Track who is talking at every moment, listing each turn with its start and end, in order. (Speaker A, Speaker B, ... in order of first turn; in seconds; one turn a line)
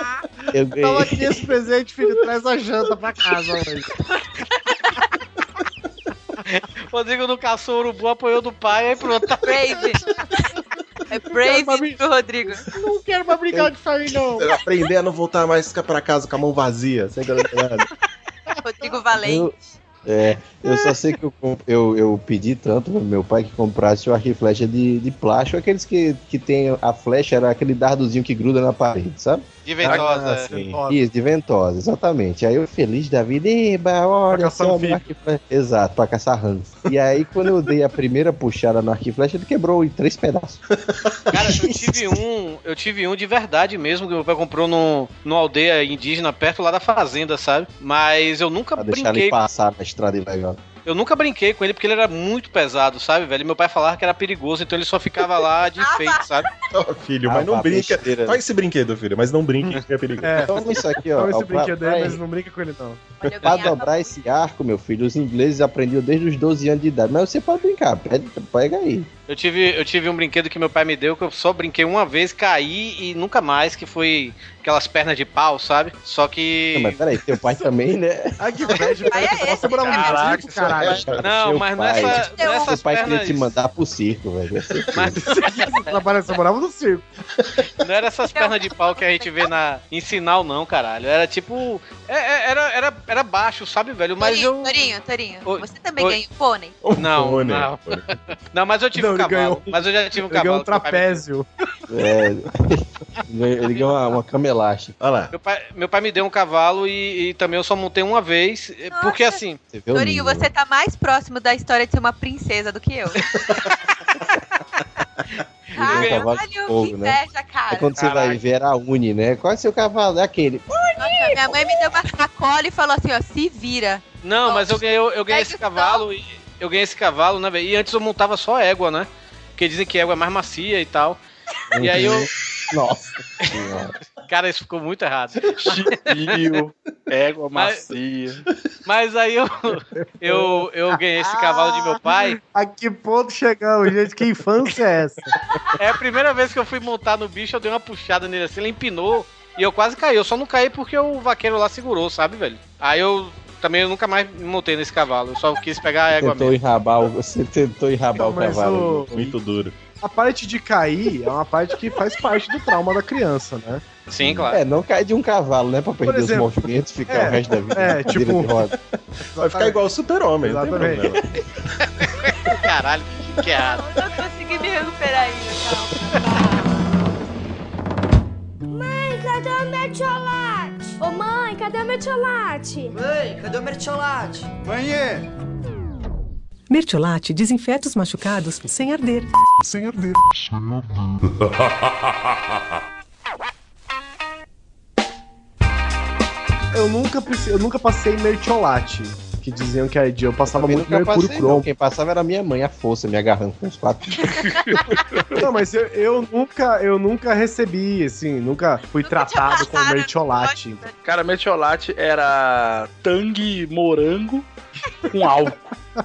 Speaker A: 0.5-1.1
Speaker B: 0.7-3.9
Speaker C: 6.4-9.9
Speaker D: 9.4-10.5
Speaker D: 11.1-12.6
Speaker B: 11.3-12.0
Speaker B: 12.7-14.5
Speaker E: 14.3-17.9
Speaker D: 18.6-19.5
Speaker A: 19.1-19.5
Speaker A: 20.0-29.5
Speaker D: 20.6-20.9
Speaker C: 29.6-30.5
Speaker E: 29.8-30.8
Speaker B: 29.8-31.0
Speaker A: 30.9-40.6
Speaker B: 34.3-35.0
Speaker E: 40.9-41.2
Speaker C: 41.3-49.4
Speaker A: 41.5-42.1
Speaker A: 48.8-50.6
Speaker C: 50.8-56.5
Speaker D: 55.4-56.7
Speaker E: 56.7-60.5
Speaker A: 57.2-58.4
Speaker B: 60.2-63.1
Speaker A: 60.4-62.2
Speaker D: 63.2-64.2
Speaker E: 63.2-63.7
Speaker A: 63.5-69.1
Speaker C: 69.3-77.0
Speaker A: 76.7-78.4
Speaker B: 78.4-81.0
Speaker D: 78.6-80.4
Speaker F: 79.9-80.7
Speaker E: 80.7-81.2
Speaker A: 81.0-85.2
Speaker C: 81.2-83.5
Speaker D: 82.1-82.8
Speaker B: 85.2-87.0
Speaker C: 85.6-86.0
Speaker C: 87.8-94.9
Speaker D: 88.3-89.5
Speaker D: 94.2-96.8
Speaker C: 95.4-96.2
Speaker E: 96.8-98.1
Speaker C: 96.9-101.2
Speaker B: 98.9-101.5
Speaker A: 101.9-105.0
Speaker C: 103.7-104.1
Speaker E: 105.0-105.3
Speaker C: 105.3-109.6
Speaker D: 108.9-113.1
Speaker A: 109.7-110.5
Speaker D: 115.7-118.0
Speaker A: 115.7-120.9
Speaker C: 115.8-116.3
Speaker C: 118.0-118.4
Speaker D: 121.0-126.0
Speaker C: 124.2-131.2
Speaker A: 131.7-133.9
Speaker C: 131.8-132.3
Speaker C: 134.3-136.0
Speaker F: 135.6-138.4
Speaker C: 137.5-137.9
Speaker C: 138.8-142.4
Speaker B: 141.2-145.3
Speaker C: 145.8-156.5
Speaker A: 156.2-159.1
Speaker B: 158.1-159.3
Speaker E: 159.1-159.8
Speaker B: 160.0-163.8
Speaker C: 164.1-164.6
Speaker E: 164.2-164.5
Speaker A: 164.4-168.7
Speaker B: 166.0-168.7
Speaker B: 169.3-169.8
Speaker E: 169.4-171.4
Speaker B: 170.4-171.1
Speaker C: 172.0-173.9
Speaker D: 173.4-176.2
Speaker G: 178.7-183.0
Speaker H: 186.7-190.0
Speaker B: 196.7-201.7
Speaker A: 200.4-204.6
Speaker B: 205.4-210.8
Speaker D: 209.0-210.9
Speaker F: 211.0-214.5
Speaker F: 215.1-215.7